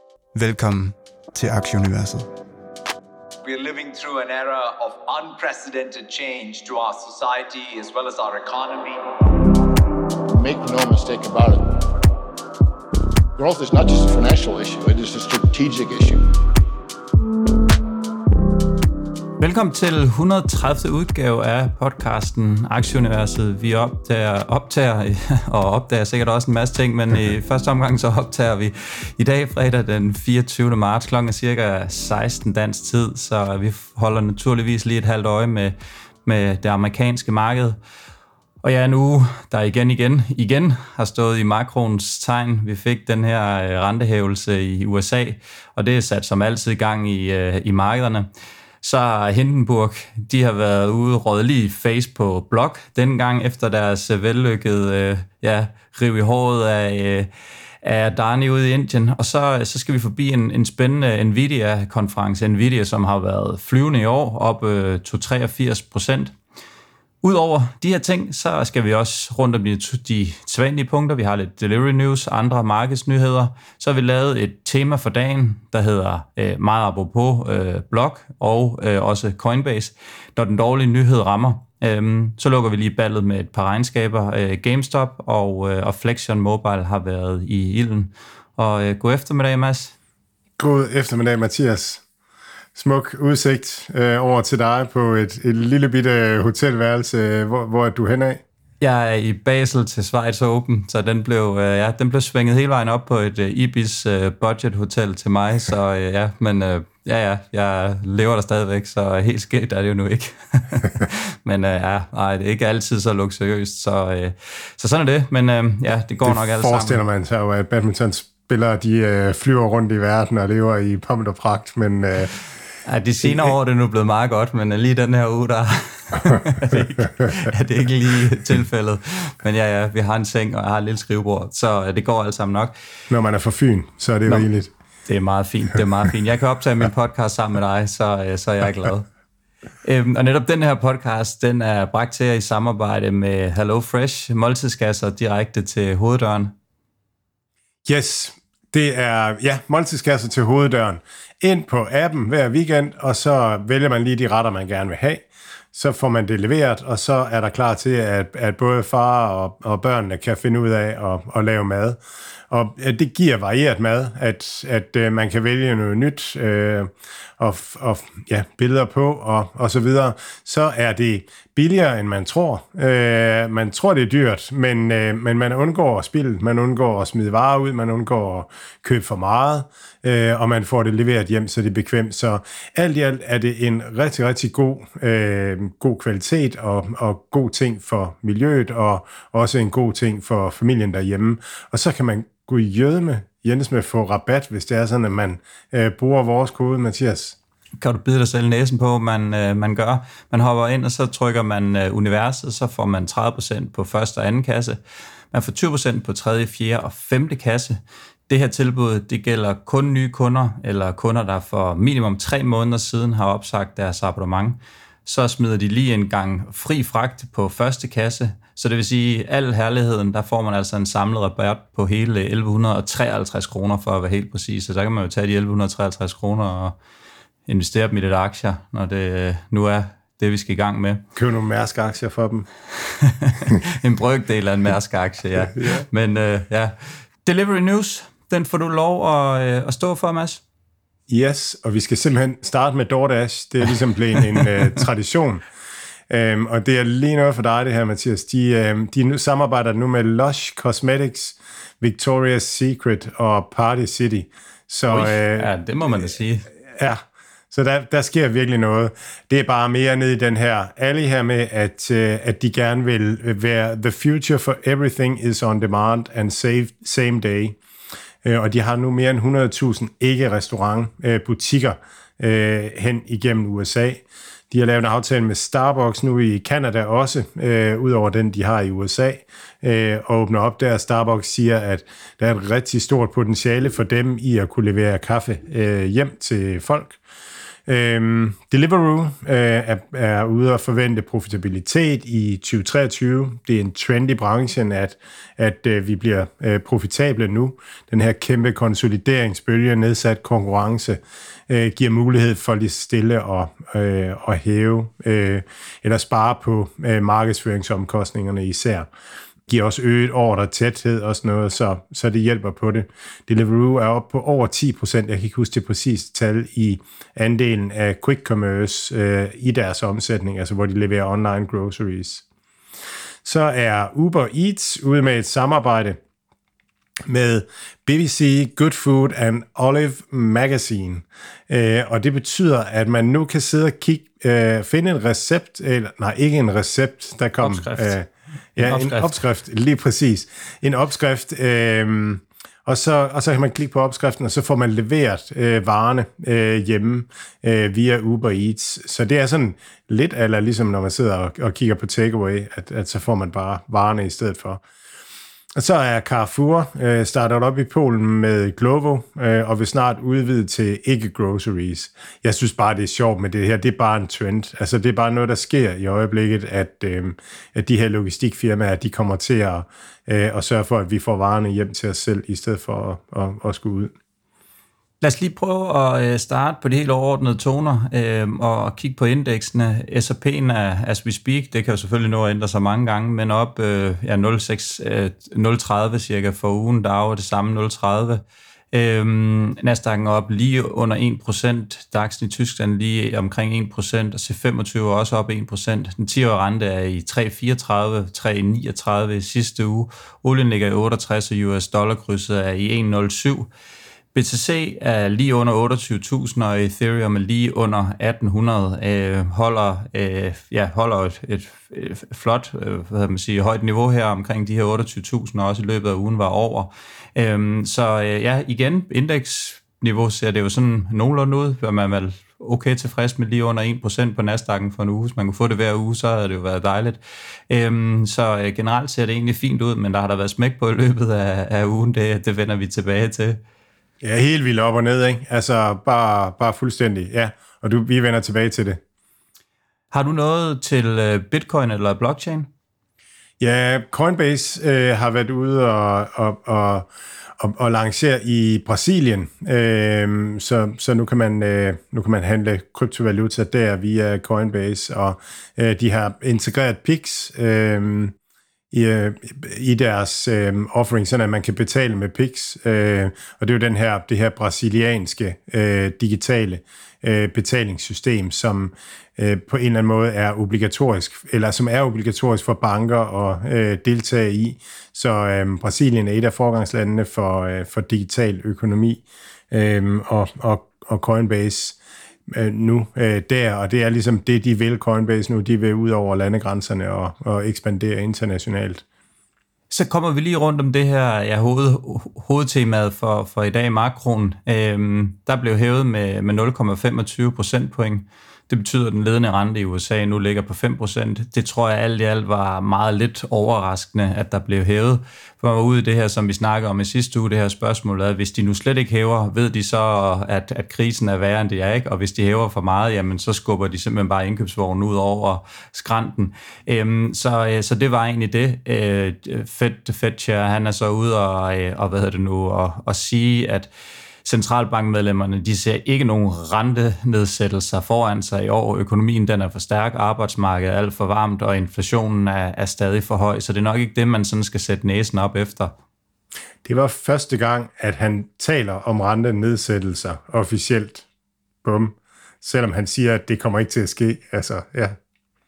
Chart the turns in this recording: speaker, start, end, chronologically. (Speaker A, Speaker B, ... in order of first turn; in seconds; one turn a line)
Speaker A: 0.3-2.3
Speaker B: 3.4-9.1
Speaker C: 10.3-11.7
Speaker C: 13.4-16.3
Speaker D: 19.4-35.7
Speaker D: 36.2-37.8
Speaker D: 38.6-48.3
Speaker D: 48.8-57.3
Speaker D: 57.8-66.3
Speaker D: 67.2-90.0
Speaker E: 90.6-92.0
Speaker E: 92.8-98.4
Speaker D: 98.8-117.0
Speaker E: 116.2-122.3
Speaker D: 122.8-132.7
Speaker E: 123.2-123.5
Speaker E: 133.1-134.7
Speaker D: 135.1-139.1
Speaker D: 139.8-146.5
Speaker E: 147.9-197.4
Speaker D: 197.8-204.8
Speaker D: 205.3-207.8
Speaker D: 208.3-226.8
Speaker D: 227.5-231.0
Speaker E: 231.2-232.5
Speaker D: 232.9-240.4
Speaker E: 235.5-235.8
Speaker E: 241.1-245.4
Speaker E: 246.1-256.1
Speaker D: 254.9-256.5
Speaker E: 256.7-267.6
Speaker E: 268.2-287.0
Speaker E: 287.7-308.9
Speaker E: 309.5-322.2
Speaker E: 323.2-326.0
Speaker E: 327.1-354.6
Speaker D: 337.4-337.9
Speaker D: 338.6-339.2
Speaker E: 355.6-373.9
Speaker D: 375.0-403.5
Speaker D: 404.1-427.0
Speaker D: 427.5-433.4
Speaker E: 434.0-438.8
Speaker D: 439.9-442.5
Speaker E: 443.4-446.9
Speaker E: 447.4-458.1
Speaker E: 458.7-481.8
Speaker E: 482.3-488.8
Speaker D: 489.7-523.7
Speaker D: 524.2-535.8
Speaker E: 536.6-541.0
Speaker E: 541.6-545.0